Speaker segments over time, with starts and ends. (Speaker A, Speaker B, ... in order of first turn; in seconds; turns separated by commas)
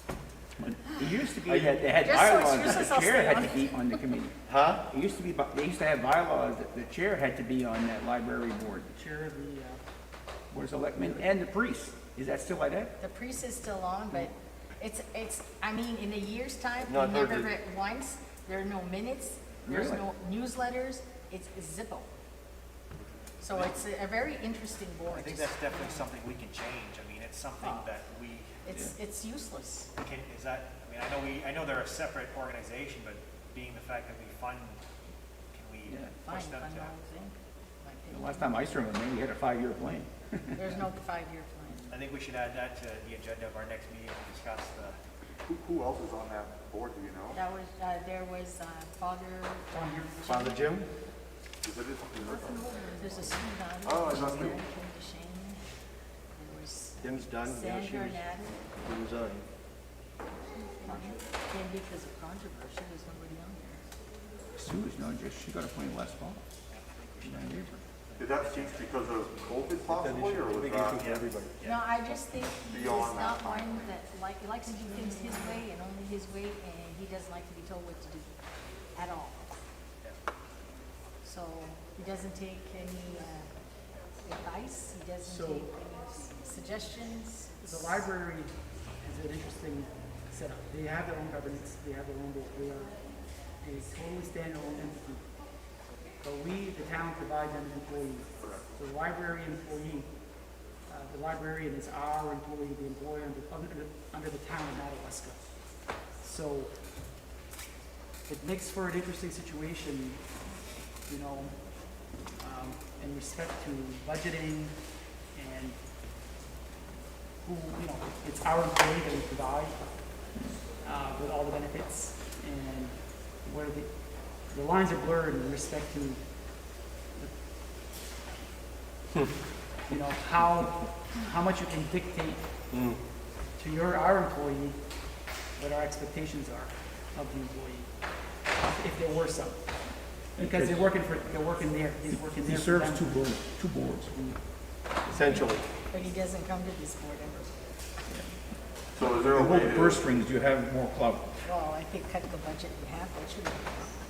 Speaker A: 0.6-4.3, Speaker B: 1.4-1.9, Speaker C: 2.0-3.7, Speaker B: 4.5-4.8, Speaker A: 4.9-8.9, Speaker D: 8.9-9.8, Speaker A: 10.5-12.9, Speaker C: 13.0-22.1, Speaker B: 16.8-17.5, Speaker A: 19.6-20.1, Speaker C: 23.4-26.0, Speaker E: 25.1-28.6, Speaker C: 27.6-27.9, Speaker C: 28.7-29.9, Speaker A: 28.7-28.9, Speaker E: 30.0-34.8, Speaker E: 35.5-36.9, Speaker A: 35.9-36.2, Speaker C: 36.2-38.6, Speaker A: 38.1-40.8, Speaker C: 40.6-41.9, Speaker E: 41.9-45.0, Speaker F: 45.4-47.4, Speaker C: 47.3-49.7, Speaker D: 49.7-50.3, Speaker B: 50.2-50.9, Speaker F: 51.6-54.6, Speaker C: 52.3-55.6, Speaker C: 56.3-58.6, Speaker B: 57.0-59.5, Speaker C: 61.5-63.8, Speaker A: 64.5-66.4, Speaker E: 66.7-69.0, Speaker A: 67.2-67.8, Speaker F: 68.2-71.1, Speaker B: 69.9-71.5, Speaker E: 70.9-72.2, Speaker C: 71.7-78.3, Speaker F: 72.6-74.0, Speaker C: 78.9-79.5, Speaker C: 81.2-83.5, Speaker C: 84.2-87.7, Speaker D: 85.2-85.7, Speaker D: 87.6-92.9, Speaker D: 93.6-95.2, Speaker D: 96.2-100.1, Speaker F: 98.4-98.6, Speaker D: 100.9-105.4, Speaker D: 106.2-106.7, Speaker D: 108.3-110.2, Speaker D: 111.1-111.5, Speaker D: 112.4-114.7, Speaker D: 115.3-115.8, Speaker D: 117.4-119.8, Speaker D: 120.8-123.9, Speaker D: 124.5-126.2, Speaker D: 129.9-132.4, Speaker B: 132.7-133.0, Speaker D: 133.6-134.8, Speaker D: 135.6-137.9, Speaker D: 138.6-139.6, Speaker A: 140.4-140.8, Speaker D: 140.4-143.2, Speaker A: 142.4-144.1, Speaker B: 145.1-145.6, Speaker C: 145.8-147.5, Speaker F: 148.9-150.1, Speaker A: 148.9-151.3, Speaker C: 151.4-153.9